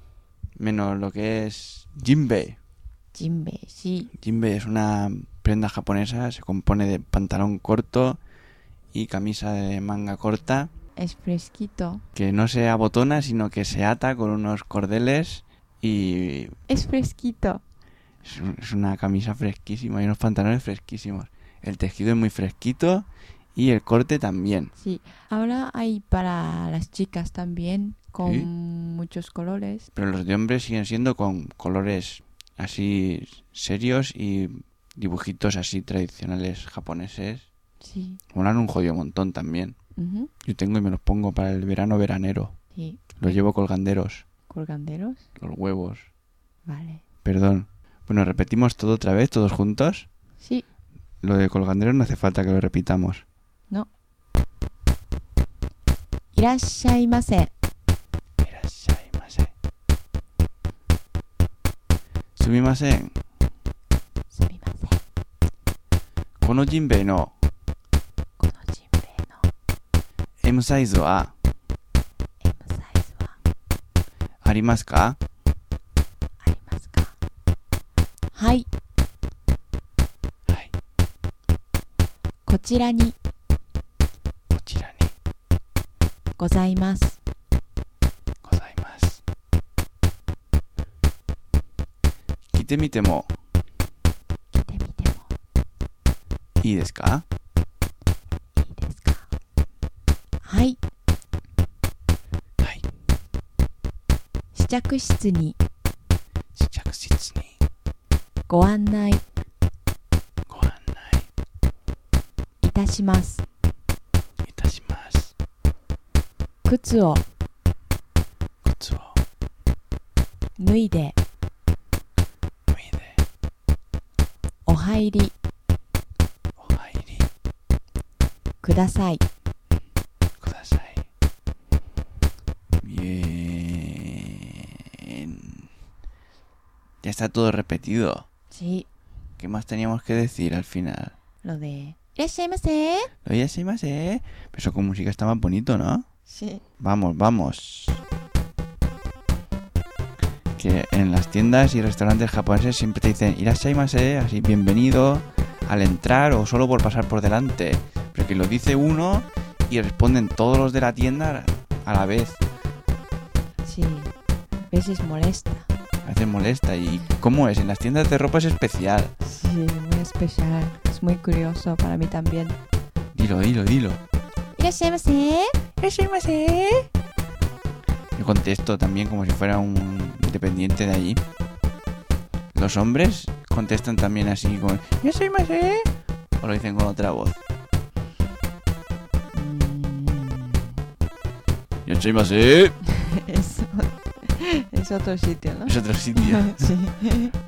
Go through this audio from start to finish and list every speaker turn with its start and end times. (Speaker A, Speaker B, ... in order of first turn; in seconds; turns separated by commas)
Speaker A: 0.6-2.6, Speaker B: 3.1-4.1, Speaker A: 4.2-8.2, Speaker A: 8.9-10.7, Speaker B: 11.0-12.0, Speaker A: 12.2-16.6, Speaker B: 16.7-17.6, Speaker A: 18.2-24.7, Speaker B: 24.8-29.9, Speaker A: 28.2-28.5, Speaker A: 29.9-37.5, Speaker B: 37.8-38.2, Speaker A: 38.3-39.8, Speaker B: 40.0-40.3, Speaker A: 40.4-42.6, Speaker B: 42.8-43.4, Speaker A: 43.2-44.2, Speaker B: 44.5-45.2, Speaker A: 45.4-46.1, Speaker B: 46.7-47.0, Speaker A: 47.2-50.1, Speaker A: 51.2-53.2, Speaker B: 56.3-57.5, Speaker A: 58.4-59.5, Speaker A: 62.4-63.1, Speaker B: 64.3-65.0, Speaker A: 66.4-67.3, Speaker B: 68.4-69.4, Speaker A: 70.4-71.3, Speaker B: 72.4-73.3, Speaker A: 74.4-75.2, Speaker B: 76.4-77.1, Speaker B: 78.3-78.7, Speaker A: 80.5-80.7, Speaker B: 82.5-83.2, Speaker A: 84.5-85.1, Speaker B: 86.4-87.2, Speaker A: 88.4-89.2, Speaker A: 92.5-93.3, Speaker B: 94.5-95.3, Speaker A: 96.6-97.2, Speaker B: 98.6-99.3, Speaker B: 100.4-100.8, Speaker A: 102.6-102.8, Speaker B: 104.5-105.6, Speaker A: 106.5-107.5, Speaker B: 108.5-109.2, Speaker A: 110.5-111.3, Speaker B: 112.6-113.4, Speaker A: 114.5-115.3, Speaker B: 116.7-117.2, Speaker A: 118.6-119.2, Speaker B: 120.6-121.2, Speaker A: 122.7-123.2, Speaker B: 124.7-125.3, Speaker A: 126.6-127.3, Speaker B: 128.6-129.2, Speaker A: 130.4-131.0, Speaker A: 132.8-135.7, Speaker A: 137.0-138.2, Speaker B: 138.5-138.9, Speaker A: 139.4-141.1, Speaker B: 141.4-143.1, Speaker A: 143.2-146.1, Speaker B: 146.3-146.6, Speaker A: 146.8-148.0, Speaker A: 150.6-162.4, Speaker B: 163.7-164.1, Speaker B: 164.7-165.7, Speaker A: 166.0-169.1, Speaker B: 169.2-172.6, Speaker A: 173.1-174.0, Speaker B: 174.6-175.6, Speaker A: 175.8-176.9, Speaker A: 178.2-181.2, Speaker A: 182.6-185.9, Speaker A: 186.4-187.4, Speaker B: 189.3-190.7, Speaker A: 191.9-192.8, Speaker B: 192.9-197.3, Speaker A: 195.7-196.8